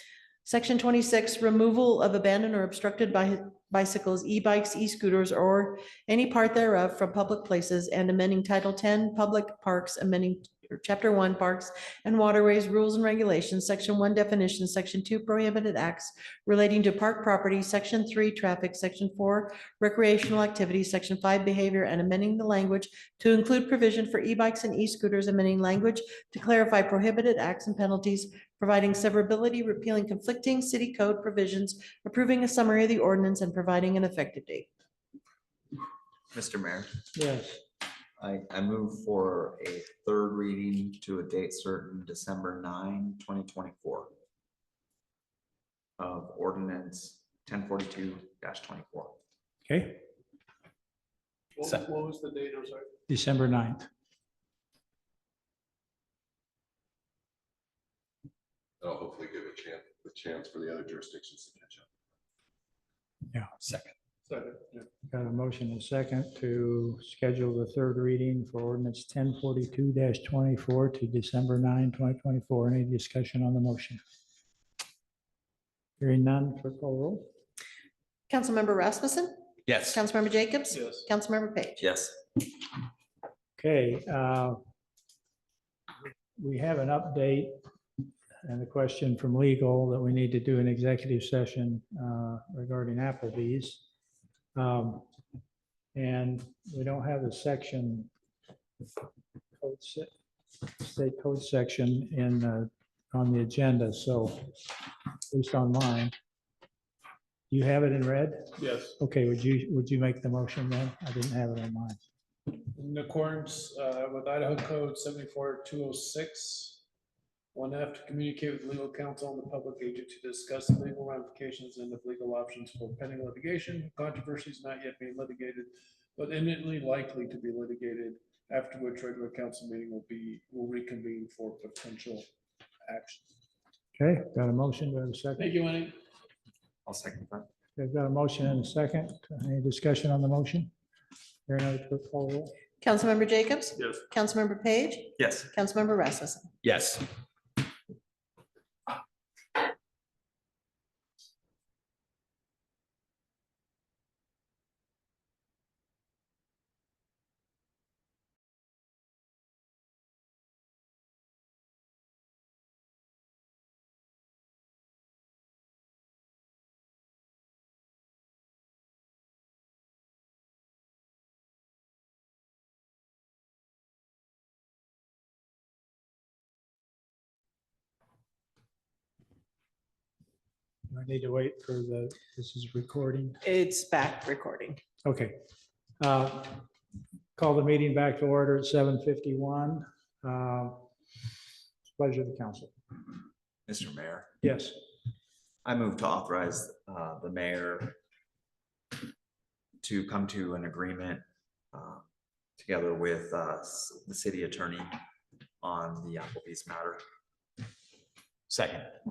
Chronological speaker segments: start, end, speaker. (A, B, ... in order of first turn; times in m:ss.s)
0:00.4-0:34.7 A
0:36.3-0:36.9 B
0:37.2-0:37.6 C
0:38.2-0:44.1 B
0:46.0-0:49.1 B
0:49.7-0:50.0 C
0:51.6-0:52.9 D
0:53.1-0:53.9 C
0:58.8-1:01.8 E
1:03.6-1:03.9 B
1:04.3-1:04.9 D
1:05.1-1:14.0 C
1:16.0-1:17.3 C
1:18.3-1:21.8 A
1:19.7-1:20.0 B
1:20.7-1:21.1 D
1:21.8-1:22.2 B
1:23.6-1:24.6 C
1:26.4-1:27.5 C
1:28.4-1:33.8 C
1:34.6-1:35.1 C
1:36.0-1:38.1 C
1:39.6-1:40.1 C
1:40.8-1:44.6 C
1:45.3-1:46.1 C
1:47.5-1:52.0 C
1:48.6-1:49.0 D
1:52.6-1:56.8 D
1:57.5-2:12.3 D
2:12.8-2:13.2 D
2:14.0-2:15.5 C
2:15.4-2:16.0 D
2:16.8-2:17.5 B
2:17.8-2:20.7 C
2:21.5-2:22.5 C
2:22.8-2:26.5 A
2:25.2-2:25.5 B
2:26.6-2:27.1 B
3:00.9-3:03.4 C
3:03.4-3:04.8 A
3:05.0-3:05.3 C
3:06.0-3:06.6 C
3:07.4-3:10.8 C
3:11.9-3:12.7 C
3:13.7-3:14.3 B
3:14.4-3:14.7 C
3:15.6-3:18.0 B
3:19.8-3:21.2 B
3:21.7-3:22.0 B
3:22.6-3:24.9 B
3:25.6-3:27.0 B
3:28.5-3:28.9 B